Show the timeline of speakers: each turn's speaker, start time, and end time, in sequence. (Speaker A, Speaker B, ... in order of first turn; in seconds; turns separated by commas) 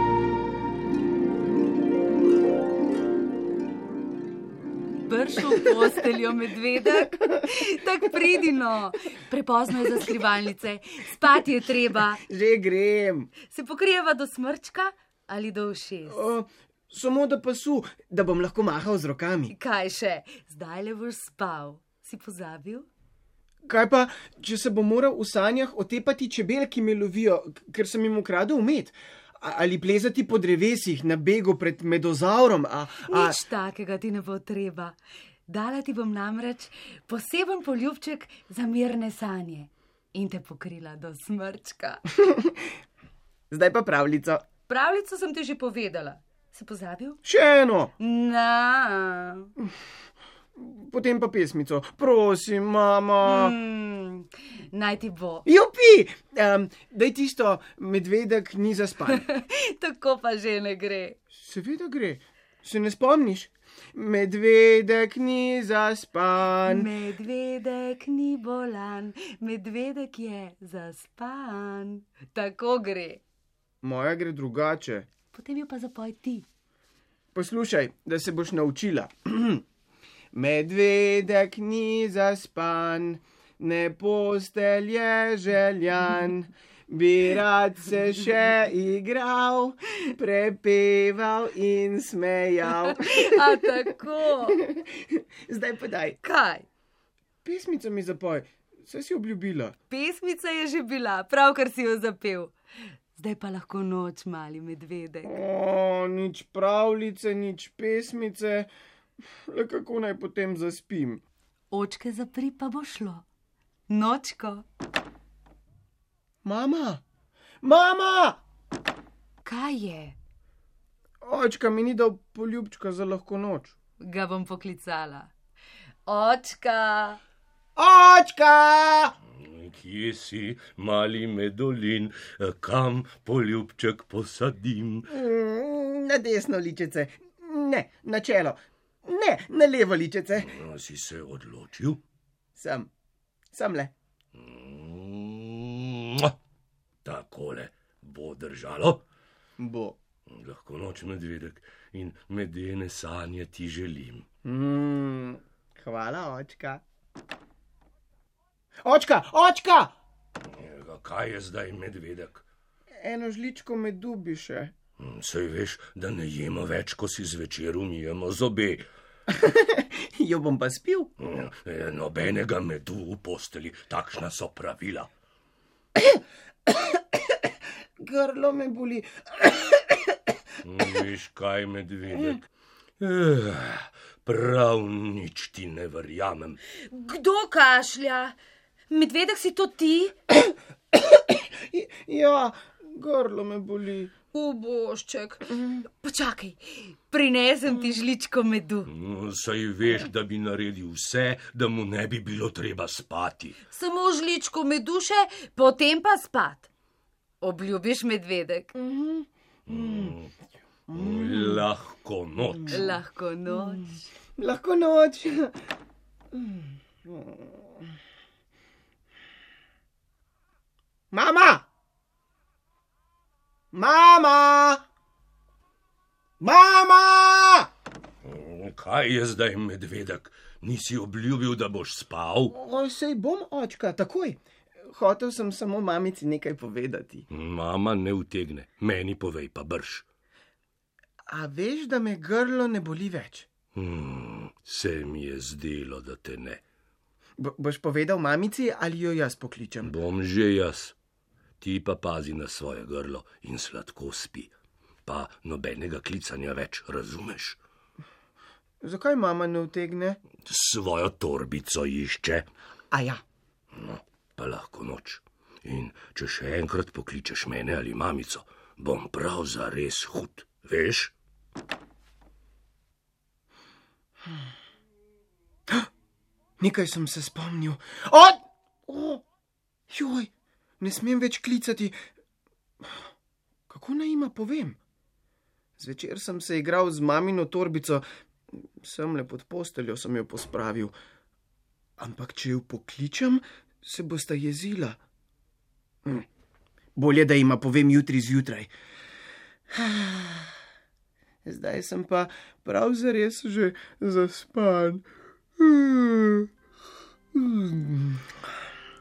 Speaker A: 5.0-12.2, Speaker B: 11.9-13.3, Speaker A: 13.4-16.2, Speaker B: 16.1-19.5, Speaker A: 19.5-22.9, Speaker B: 23.6-33.4, Speaker A: 33.0-35.0, Speaker A: 35.5-42.0, Speaker B: 42.2-42.5, Speaker B: 43.5-44.4, Speaker A: 44.7-47.2, Speaker B: 47.2-47.9, Speaker A: 48.0-49.5, Speaker B: 50.5-53.5, Speaker A: 53.2-55.5, Speaker B: 55.5-59.2, Speaker A: 59.1-61.2, Speaker B: 61.3-66.9, Speaker A: 66.7-73.2, Speaker B: 73.8-75.1, Speaker A: 75.3-76.5, Speaker B: 77.3-79.6, Speaker B: 80.3-93.7, Speaker A: 92.8-94.6, Speaker B: 94.5-96.2, Speaker A: 96.2-96.7, Speaker B: 97.4-99.8, Speaker A: 99.9-102.5, Speaker A: 103.1-105.3, Speaker B: 105.2-108.7, Speaker B: 109.5-111.2, Speaker A: 111.7-113.2, Speaker A: 113.9-114.6, Speaker B: 116.4-117.0, Speaker B: 117.6-118.4, Speaker A: 119.4-120.2, Speaker B: 121.2-123.7, Speaker A: 124.0-125.3, Speaker A: 126.0-127.2, Speaker B: 127.8-129.1, Speaker C: 129.4-135.1, Speaker B: 135.1-140.5, Speaker C: 140.4-142.0, Speaker B: 142.5-142.9, Speaker B: 143.5-143.9, Speaker C: 144.3-146.3, Speaker C: 147.0-149.0, Speaker B: 149.6-150.0, Speaker C: 150.3-154.2, Speaker B: 154.4-156.8, Speaker B: 158.8-159.9, Speaker C: 160.5-162.4, Speaker B: 163.0-164.7, Speaker C: 165.0-168.8, Speaker B: 169.3-171.1, Speaker C: 171.2-175.1, Speaker B: 175.9-180.3, Speaker C: 180.6-182.4, Speaker B: 182.1-182.4, Speaker C: 183.0-186.6, Speaker A: 186.7-188.4, Speaker A: 188.9-190.1, Speaker B: 190.9-194.1, Speaker A: 194.3-198.9, Speaker B: 195.5-195.8, Speaker C: 198.9-203.6, Speaker A: 203.7-206.7, Speaker A: 207.4-208.7, Speaker B: 208.7-210.1, Speaker C: 209.7-210.3, Speaker B: 210.9-211.7, Speaker C: 210.9-212.9, Speaker B: 212.6-213.0, Speaker A: 212.7-214.1, Speaker B: 213.6-213.8, Speaker B: 214.4-215.5, Speaker B: 216.3-217.9, Speaker B: 221.1-221.7, Speaker B: 223.7-224.8, Speaker B: 226.4-227.7, Speaker C: 228.2-232.5, Speaker B: 232.5-237.2, Speaker C: 237.3-240.0, Speaker B: 241.3-243.5, Speaker C: 243.7-246.6, Speaker B: 247.4-249.9, Speaker C: 249.8-250.9, Speaker C: 251.6-254.5, Speaker C: 255.1-257.6, Speaker B: 258.8-260.2, Speaker C: 260.4-262.5, Speaker B: 262.9-263.2, Speaker C: 263.7-271.1, Speaker B: 276.6-279.2, Speaker B: 279.9-282.0, Speaker B: 283.7-284.8, Speaker B: 285.8-290.9, Speaker B: 292.0-295.0, Speaker B: 296.9-298.7, Speaker B: 299.7-300.5, Speaker B: 301.4-305.0, Speaker B: 305.6-306.5, Speaker B: 307.3-308.3